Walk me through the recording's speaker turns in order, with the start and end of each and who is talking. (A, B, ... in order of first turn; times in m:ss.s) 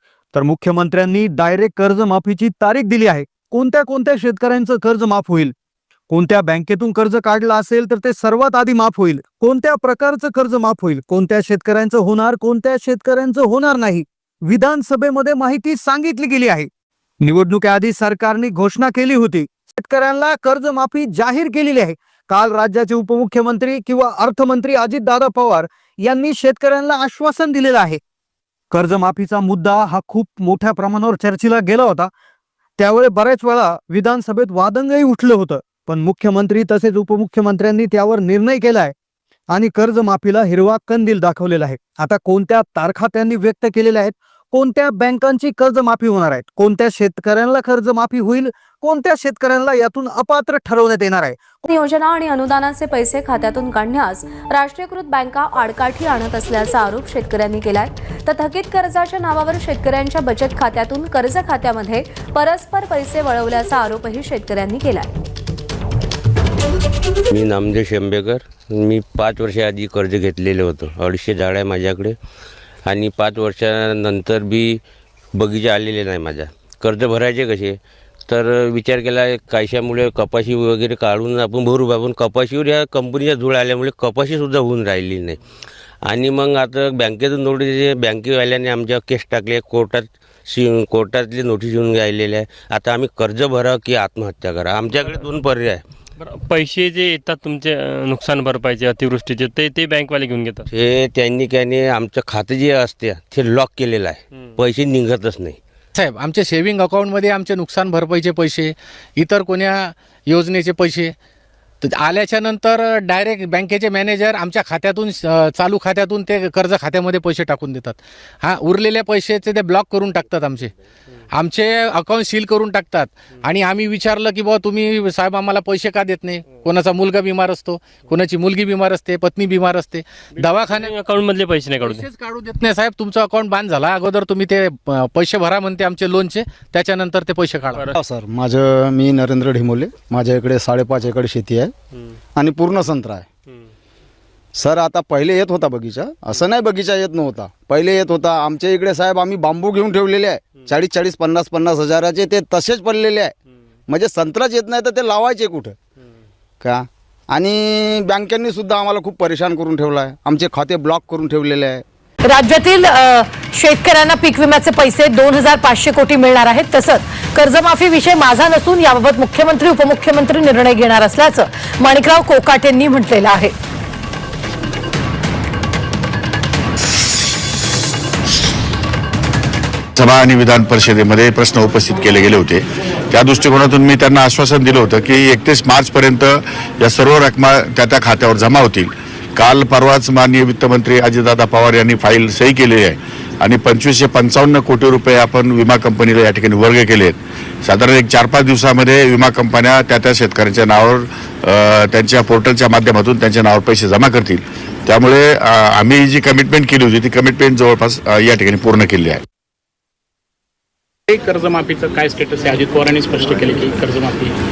0:00.3-0:05.5 A
0:06.1-0:16.7 A
0:17.2-0:28.0 A
0:28.7-0:32.1 A
0:32.8-0:38.9 A
0:39.5-0:51.6 A
0:51.7-1:05.1 B
1:07.3-1:12.2 C
1:12.9-1:14.8 C
1:15.4-1:25.4 C
1:26.1-1:35.8 C
1:36.2-1:40.6 D
1:40.7-1:45.6 C
1:46.0-1:51.1 E
1:51.8-2:00.7 E
2:01.3-2:11.0 E
2:10.9-2:12.1 D
2:11.8-2:17.9 E
2:18.0-2:21.7 F
2:22.4-2:23.3 F
2:24.6-2:33.3 F
2:33.9-2:35.8 F
2:36.6-2:41.8 F
2:42.2-2:53.6 G
3:00.0-3:29.2 H
3:31.1-3:34.3 I